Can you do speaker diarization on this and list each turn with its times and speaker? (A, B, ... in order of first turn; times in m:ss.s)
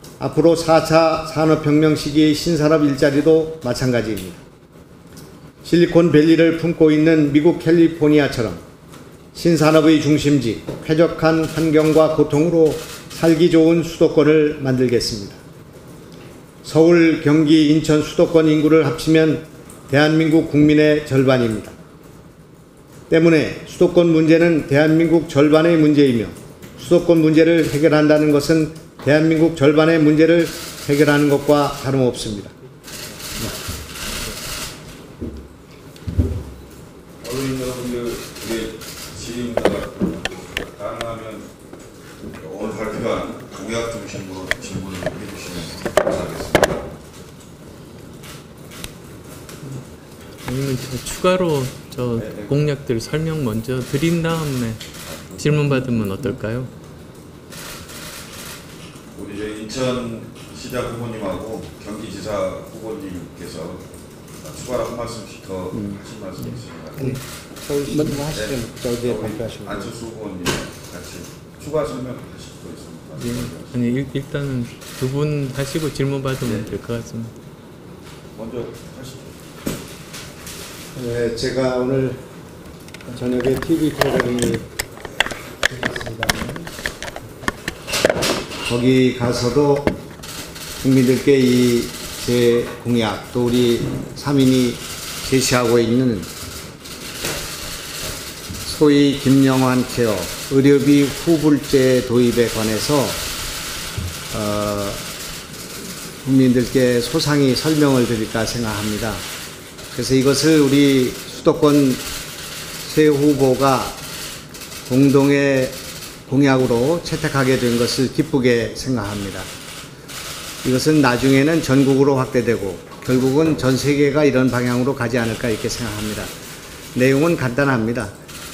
0:00.2-0:04.4 A
0:05.6-0:08.6 A
0:09.3-0:15.4 A
0:16.6-0:21.7 A
0:23.1-0:32.5 A
0:37.2-0:41.5 B
0:42.4-0:46.8 B
0:50.4-0:54.8 C
0:52.2-0:52.5 B
0:55.3-0:56.7 C
0:59.1-1:03.8 B
1:04.4-1:07.2 B
1:07.0-1:10.0 A
1:08.1-1:13.7 B
1:13.2-1:17.3 C
1:18.3-1:19.3 B
1:20.9-1:22.2 A
1:23.1-1:24.6 A
1:25.7-1:26.7 A
1:28.6-1:29.9 A
1:30.8-1:36.3 A
1:38.6-1:43.2 A
1:44.3-1:45.0 A
1:46.2-1:49.2 A
1:49.9-1:52.0 A
1:52.8-1:54.0 A
1:54.9-1:55.8 A
1:56.3-1:59.5 A
2:00.6-2:06.3 A
2:06.9-2:08.1 A